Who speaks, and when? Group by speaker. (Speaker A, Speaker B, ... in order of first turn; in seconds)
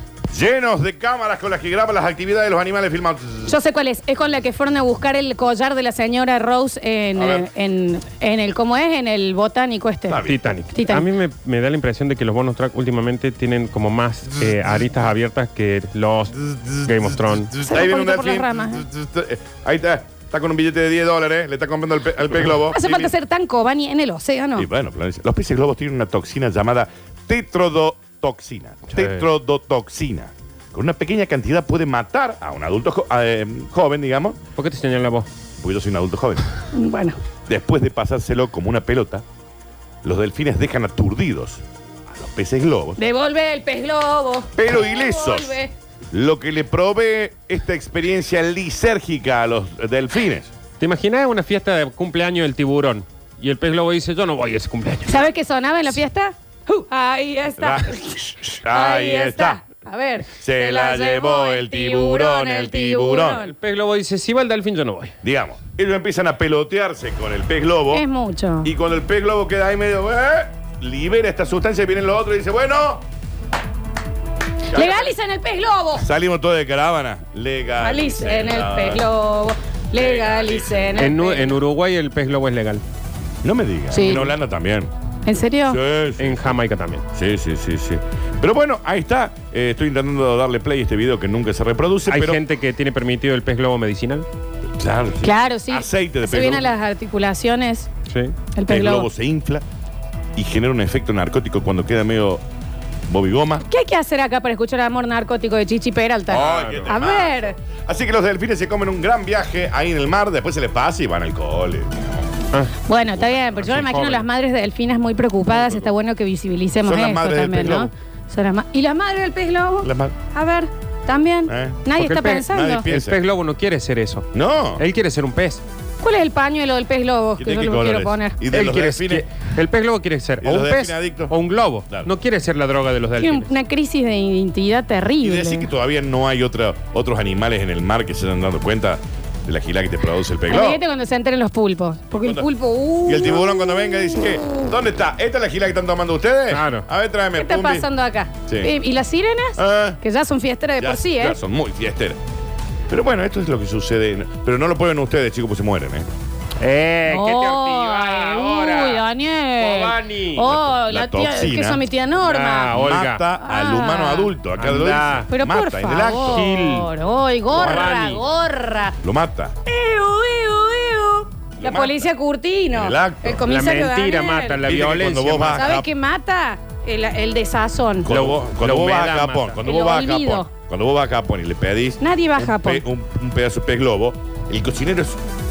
Speaker A: 0.3-3.6, 7.2-7.5, 10.1-10.5, 14.3-14.8, 16.4-23.1, 24.6-34.4, 35.6-36.5, 37.5-39.2, 40.0-43.0, 44.6-45.6, 46.1-50.5, 57.6-59.6, 60.2-63.4, 65.2-68.0, 68.6-73.0, 74.7-75.1, 76.0-79.0, 79.9-81.1, 83.4-84.9, 85.7-86.5, 87.1-92.4, 94.8-96.7, 98.7-99.6, 100.4-102.4, 103.1-103.6, 106.3-112.3, 116.8-117.9, 119.8-120.2, 121.5-121.9, 122.5-123.2, 124.3-124.8, 127.4-129.2, 130.4-131.3, 135.2-140.8, 142.2-142.5, 143.1-147.9, 148.4-148.7, 149.6-150.0, 150.8-152.2, 152.9-156.1, 160.5-161.8, 162.8-166.4, 167.5-167.9, 169.0-169.6, 171.6-172.1, 172.7-173.4, 174.6-175.9, 178.0-185.2
Speaker B: 3.5-11.1, 17.6-18.8, 22.7-24.7, 36.7-37.2, 43.0-45.7, 55.1-63.5, 67.9-68.7, 74.7-76.1, 77.8-81.6, 83.9-84.3, 85.2-85.8, 95.2-97.9, 98.5-99.1, 103.6-107.5, 112.9-122.9, 126.0-128.4, 133.2-135.7, 140.5-144.6, 147.4-151.4, 157.1-164.4, 165.3-168.9, 169.7-174.6, 175.6-178.1, 179.6-180.5, 182.0-182.8
Speaker C: 10.2-17.5, 28.9-29.2, 34.6-35.3, 50.8-55.3, 63.3-65.1, 81.0-82.8, 86.2-87.0, 92.1-94.2, 98.1-98.3, 106.3-107.0, 113.5-114.2, 121.9-125.6, 128.5-133.5, 146.5-146.9, 156.6-159.0, 159.6-160.6, 162.2-163.2, 164.6-165.3, 166.2-166.9, 167.5-168.2, 173.4-175.8, 178.1-179.6